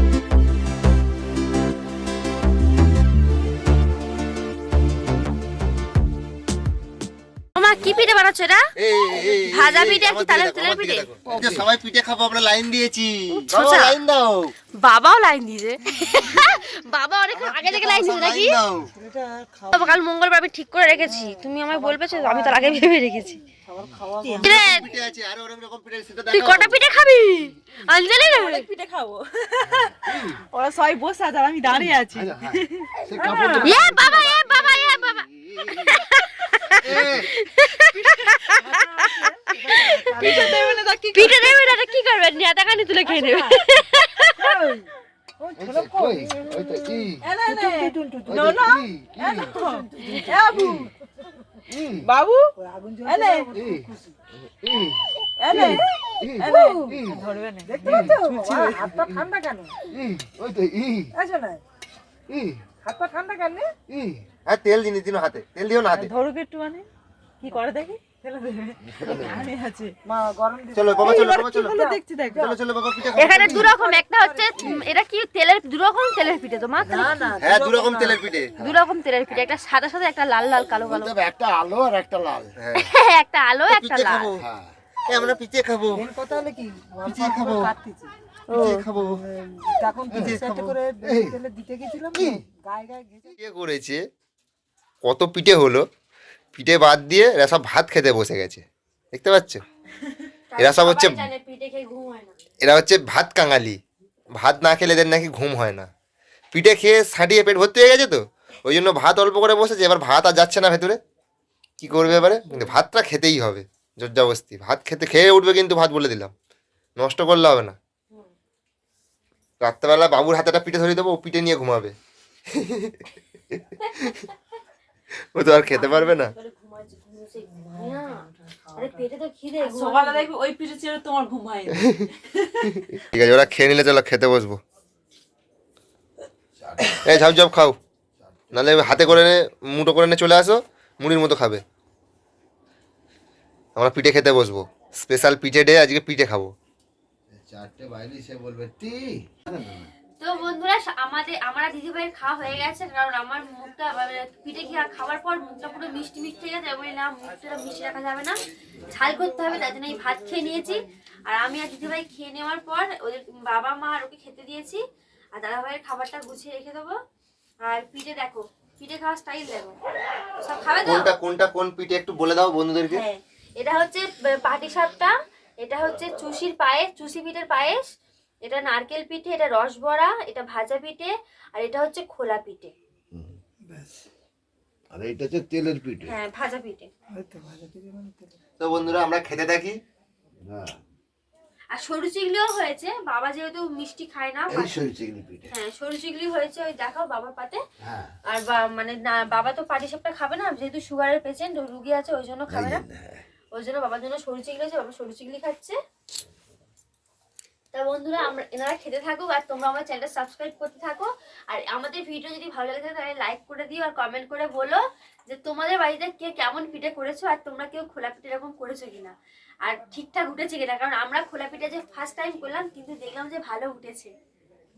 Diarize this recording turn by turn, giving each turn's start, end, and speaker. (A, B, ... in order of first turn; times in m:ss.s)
0:07.5-0:08.7 A
0:08.8-0:14.5 B
0:09.2-0:11.4 A
0:13.3-0:14.0 A
0:14.8-0:18.6 A
0:17.3-0:18.9 B
0:18.9-0:20.0 C
0:19.7-0:23.4 A
0:21.0-0:22.9 C
0:23.5-0:24.6 C
0:24.2-0:24.6 D
0:24.4-0:26.8 B
0:24.4-0:24.9 A
0:26.3-0:28.7 A
0:28.2-0:33.8 D
0:30.0-0:30.3 E
0:32.2-0:35.8 E
0:33.6-0:44.6 A
0:36.8-0:37.2 E
0:37.0-0:37.2 D
0:38.0-0:39.1 D
0:38.7-0:40.6 C
0:39.9-0:41.9 D
0:43.0-0:44.2 D
0:44.4-0:48.7 C
0:45.6-0:47.2 E
0:47.2-0:50.9 D
0:48.3-0:49.5 E
0:49.4-0:50.6 C
0:50.0-0:50.3 A
0:51.7-0:52.0 E
0:52.0-0:52.5 D
0:52.6-0:54.2 C
0:53.0-0:53.5 D
0:53.6-0:53.9 E
0:54.5-0:55.0 E
0:55.4-0:58.2 D
0:56.2-0:57.2 E
0:56.5-0:57.0 C
0:57.6-0:59.8 C
0:58.1-0:58.8 E
0:59.9-1:01.1 E
1:01.1-1:01.6 C
1:02.3-1:02.6 E
1:02.8-1:03.7 C
1:03.9-1:04.2 E
1:04.4-1:06.1 B
1:05.9-1:06.9 D
1:07.4-1:09.9 D
1:08.9-1:09.3 E
1:10.0-1:12.6 C
1:10.7-1:11.8 B
1:11.0-1:12.5 D
1:12.3-1:13.7 B
1:13.1-1:17.2 A
1:13.6-1:14.8 C
1:16.8-1:18.2 C
1:17.4-1:18.8 B
1:18.6-1:21.2 A
1:20.9-1:22.5 E
1:22.6-1:22.9 B
1:22.7-1:24.4 A
1:23.7-1:24.4 B
1:24.4-1:24.7 E
1:25.1-1:26.0 B
1:26.0-1:28.1 C
1:27.0-1:27.7 B
1:28.5-1:28.8 A
1:28.5-1:29.2 B
1:29.0-1:33.3 C
1:30.1-1:30.3 E
1:30.2-1:30.6 B
1:31.0-1:31.4 E
1:33.4-1:34.0 B
1:35.0-1:35.8 B
1:36.5-1:39.6 B
1:40.5-1:42.3 A
1:40.6-1:41.3 B
1:42.6-1:43.8 B
1:44.4-1:45.9 B
1:46.5-1:51.0 B
1:51.8-1:56.3 B
1:57.0-1:57.8 B
1:59.6-2:01.9 B
2:02.5-2:03.0 B
2:03.5-2:04.2 B
2:05.2-2:06.3 B
2:05.7-2:10.3 A
2:07.8-2:08.8 C
2:09.6-2:12.8 D
2:12.7-2:14.6 B
2:16.6-2:17.0 E
2:17.0-2:17.8 B
2:18.2-2:19.0 E
2:18.5-2:21.6 B
2:23.8-2:26.5 B
2:27.3-2:29.9 E
2:30.2-2:44.8 A
2:45.3-2:47.0 A
2:47.6-2:49.8 A
2:50.4-2:51.1 A
2:50.8-2:53.0 B
2:52.9-2:57.8 A
2:58.4-3:02.7 A
3:03.6-3:04.0 C
3:04.9-3:06.1 E
3:06.0-3:06.9 A
3:07.1-3:08.4 C
3:08.6-3:09.8 B
3:10.4-3:10.8 E
3:11.7-3:14.9 A
3:14.5-3:15.5 E
3:15.5-3:17.6 A
3:17.8-3:18.1 E
3:18.3-3:22.8 A
3:22.5-3:23.2 E
3:23.5-3:25.8 A
3:27.7-3:44.1 A